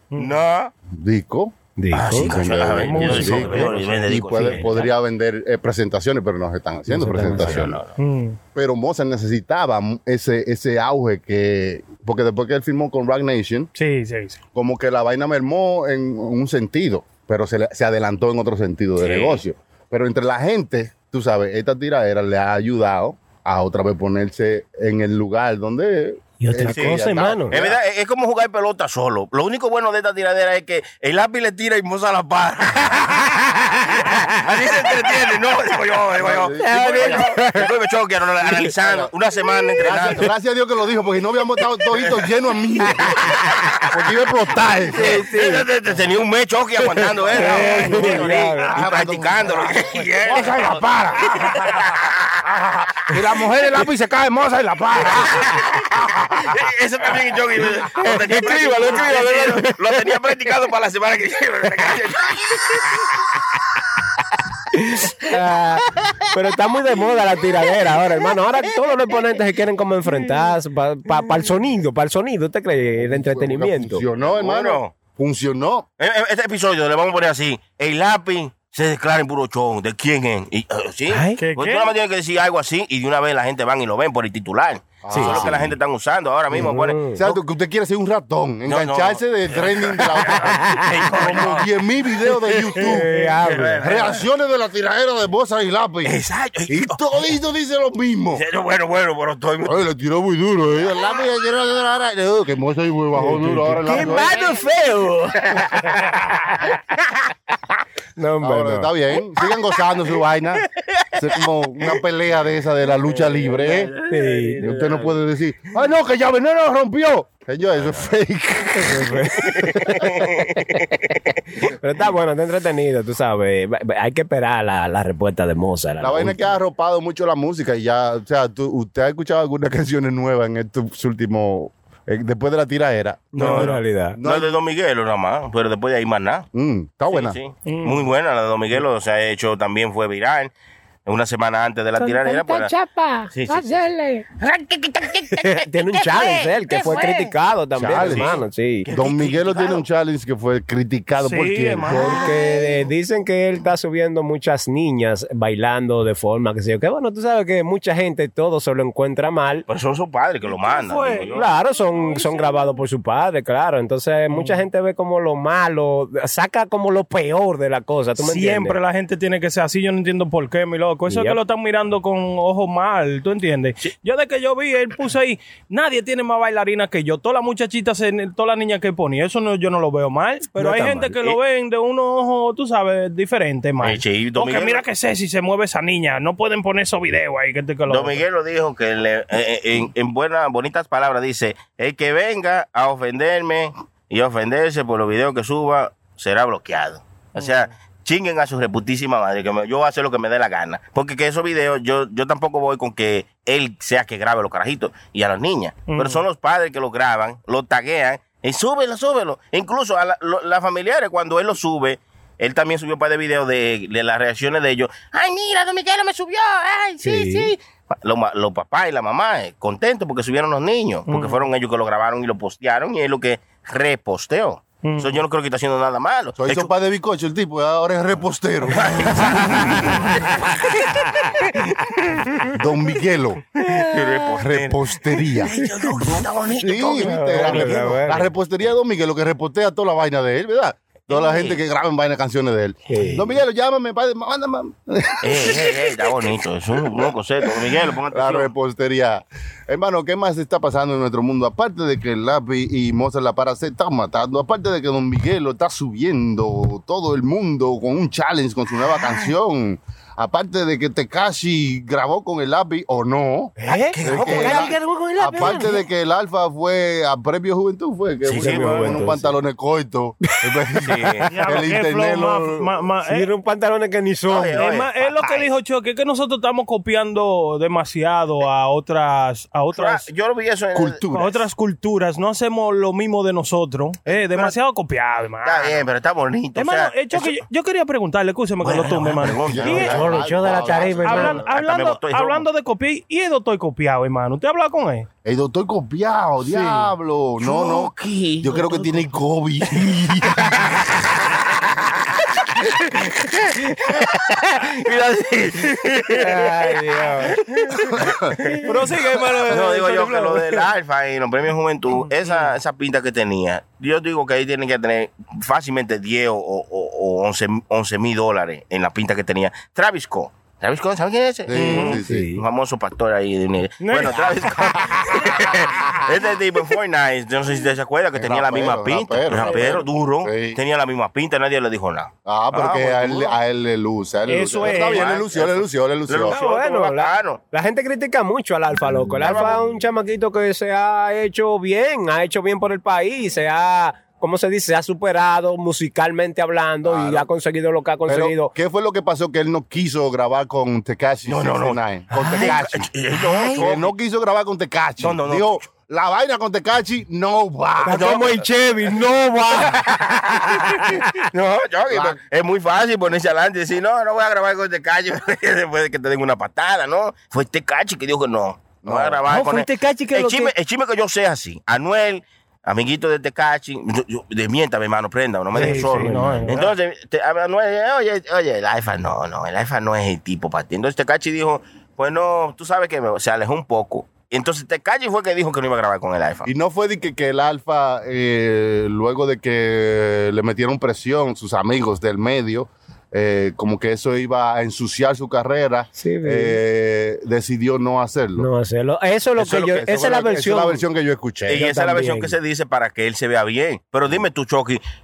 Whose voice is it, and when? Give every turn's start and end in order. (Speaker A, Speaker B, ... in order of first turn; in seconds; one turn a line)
Speaker A: 0.1-0.4
Speaker B: 0.2-0.7
Speaker C: 0.9-1.6
Speaker D: 1.8-2.3
Speaker B: 1.9-4.9
Speaker C: 2.1-7.8
Speaker A: 2.8-3.7
Speaker D: 3.5-4.6
Speaker D: 6.9-7.7
Speaker B: 7.3-8.0
Speaker A: 8.0-8.4
Speaker C: 8.5-13.7
Speaker A: 13.8-14.4
Speaker C: 14.6-27.8
Speaker B: 19.0-19.4
Speaker D: 26.4-27.5
Speaker B: 26.7-40.3
Speaker C: 36.1-37.7
Speaker D: 36.6-37.6
Speaker C: 38.4-39.1
Speaker C: 39.8-43.3
Speaker B: 41.9-42.3
Speaker B: 43.3-43.8
Speaker C: 43.9-45.3
Speaker D: 44.9-45.7
Speaker B: 44.9-52.4
Speaker D: 47.3-48.7
Speaker C: 47.3-51.9
Speaker C: 52.5-56.6
Speaker B: 55.1-55.9
Speaker B: 56.5-63.0
Speaker D: 58.0-60.0
Speaker D: 64.9-74.0
Speaker C: 72.9-75.8
Speaker B: 74.2-74.9
Speaker B: 76.0-87.4
Speaker D: 81.1-81.4
Speaker A: 81.4-81.9
Speaker C: 85.0-85.8
Speaker D: 85.1-85.5
Speaker C: 86.5-93.1
Speaker D: 86.5-87.2
Speaker B: 88.7-91.7
Speaker B: 92.5-92.9
Speaker D: 92.8-93.8
Speaker A: 93.0-93.3
Speaker B: 93.4-94.2
Speaker C: 93.8-98.4
Speaker B: 96.0-97.3
Speaker B: 98.3-99.8
Speaker C: 99.6-104.3
Speaker D: 103.2-105.9
Speaker B: 103.9-106.2
Speaker D: 108.2-108.9
Speaker C: 108.4-113.9
Speaker B: 113.1-115.1
Speaker D: 114.1-114.7
Speaker C: 114.6-119.2
Speaker B: 117.8-118.1
Speaker D: 118.8-120.5
Speaker B: 119.6-121.0
Speaker D: 121.6-126.4
Speaker C: 126.0-134.6
Speaker D: 133.3-134.2
Speaker B: 133.4-133.7
Speaker A: 133.5-133.8
Speaker B: 134.2-136.5
Speaker C: 136.5-137.4
Speaker B: 137.1-140.5
Speaker A: 137.7-138.1
Speaker B: 141.1-142.7
Speaker E: 142.0-144.2
Speaker B: 143.3-143.8
Speaker B: 144.4-147.3
Speaker D: 145.3-148.9
Speaker C: 147.8-148.4
Speaker B: 147.9-149.8
Speaker C: 148.9-152.2
Speaker A: 151.2-152.4
Speaker D: 151.9-159.6
Speaker B: 159.7-161.5
Speaker A: 160.4-162.6
Speaker D: 161.3-168.8
Speaker A: 164.3-164.6
Speaker A: 168.2-188.2
Speaker D: 171.1-171.4
Speaker D: 180.6-181.2
Speaker B: 183.8-184.8
Speaker B: 187.9-226.7
Speaker A: 197.4-197.7
Speaker A: 205.9-206.2
Speaker D: 217.0-217.5
Speaker A: 221.1-221.4
Speaker A: 224.8-225.2
Speaker C: 226.4-230.1
Speaker B: 228.7-231.2
Speaker C: 232.5-233.5
Speaker B: 233.7-238.0
Speaker C: 234.4-235.6
Speaker C: 236.6-246.2
Speaker D: 237.0-238.3
Speaker B: 241.1-241.6
Speaker D: 242.9-243.2
Speaker B: 245.2-248.5
Speaker C: 246.8-247.5
Speaker C: 248.1-272.8
Speaker D: 263.6-265.8
Speaker B: 263.7-264.8
Speaker B: 268.2-269.1
Speaker D: 268.4-269.4
Speaker B: 270.9-271.3
Speaker A: 271.3-273.3
Speaker D: 273.1-274.6
Speaker B: 274.3-275.5
Speaker A: 274.6-280.1
Speaker B: 279.7-281.1
Speaker C: 280.7-281.4
Speaker A: 281.1-285.8
Speaker B: 284.1-284.6
Speaker B: 285.4-287.4
Speaker A: 286.6-290.0
Speaker B: 288.6-292.5
Speaker C: 289.4-291.4
Speaker D: 289.8-291.4
Speaker A: 291.0-295.1
Speaker C: 295.2-300.8
Speaker B: 297.4-299.0
Speaker B: 300.4-306.8
Speaker D: 306.1-307.4
Speaker B: 307.3-308.0
Speaker C: 307.9-308.4
Speaker D: 308.4-308.7
Speaker A: 308.6-310.5
Speaker B: 309.5-333.4
Speaker A: 312.2-312.5
Speaker C: 321.5-322.3
Speaker A: 321.6-322.0
Speaker D: 322.0-322.4
Speaker A: 323.8-324.3
Speaker C: 328.1-330.6
Speaker C: 332.3-336.4
Speaker A: 334.3-335.1
Speaker B: 334.6-337.4
Speaker D: 336.3-348.5
Speaker B: 339.2-339.7
Speaker C: 346.9-347.3
Speaker C: 348.1-352.9
Speaker B: 351.3-353.9
Speaker D: 352.1-352.6
Speaker D: 353.1-353.6
Speaker C: 353.5-358.2
Speaker B: 355.0-355.6
Speaker D: 357.8-359.9
Speaker B: 357.9-358.4
Speaker B: 359.6-386.5
Speaker D: 360.7-361.1
Speaker C: 361.9-362.2
Speaker C: 368.8-369.2
Speaker D: 369.3-370.5
Speaker D: 375.5-376.5
Speaker A: 375.5-376.7
Speaker C: 386.4-398.5
Speaker D: 396.0-396.6
Speaker D: 398.4-400.8
Speaker B: 399.4-399.9
Speaker C: 399.5-401.6
Speaker B: 401.5-404.8
Speaker D: 401.5-402.4